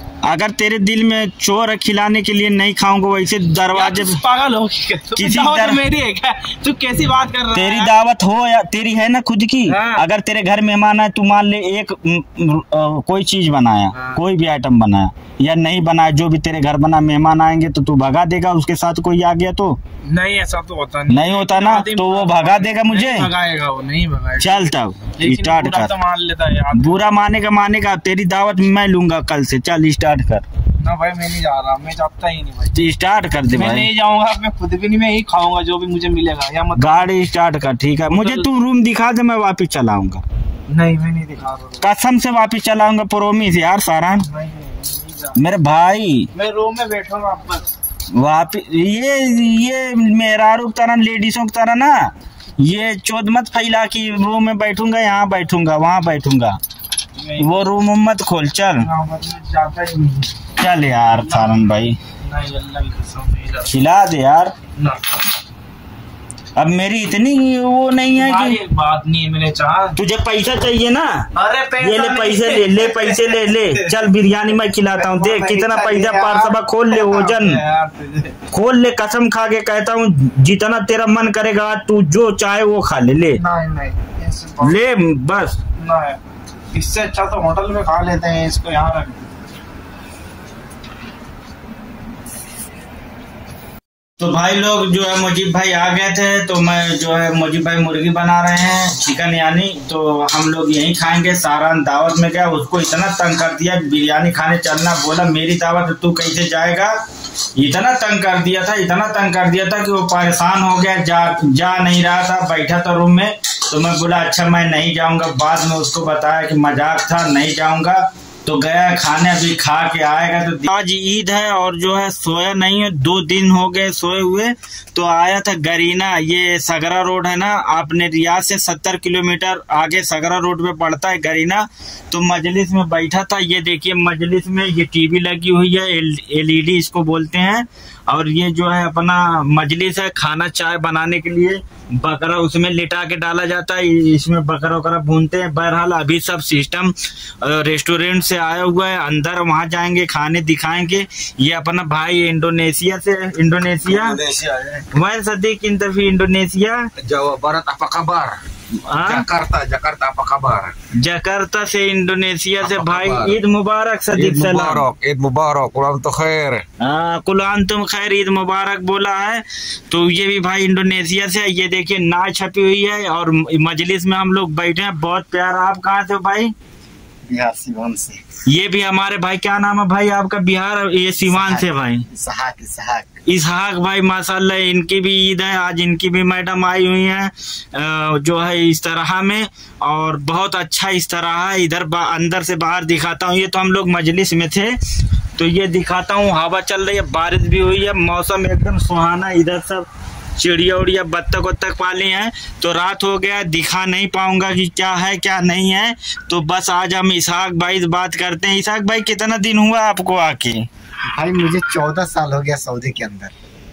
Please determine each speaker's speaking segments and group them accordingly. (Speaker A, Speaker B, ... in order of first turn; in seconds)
Speaker A: 0.2-4.2, 5.2-5.8, 7.5-19.8, 21.1-23.3, 24.4-25.9, 26.7-30.4, 32.7-33.9, 36.8-40.2, 41.8-44.3, 45.4-46.3, 48.1-56.6, 57.4-58.9, 60.6-62.0, 63.7-64.5, 66.5-68.6, 70.0-71.2, 71.8-77.6, 78.5-83.4, 84.6-85.6, 94.2-106.9, 107.5-154.2, 154.9-156.8, 158.8-159.2, 161.0-164.8, 166.8-176.5, 178.4-182.1, 183.2-194.7, 195.4-210.7
Speaker B: 3.7-7.9, 9.7-10.0, 20.1-27.2, 30.8-32.8, 33.5-37.1, 38.1-38.5, 40.7-41.9, 44.2-45.4, 46.3-47.7, 57.2-57.5, 58.8-60.4, 62.2-63.7, 64.7-65.2, 68.2-70.0, 71.3-74.0, 75.0-78.4, 83.4-84.8, 85.8-86.2, 86.7-89.3
Speaker C: 153.9-154.8, 157.0-158.4, 159.0-160.7, 162.6-163.4, 164.1-166.6
Speaker D: 177.2-178.2, 181.2-183.1, 211.1-213.3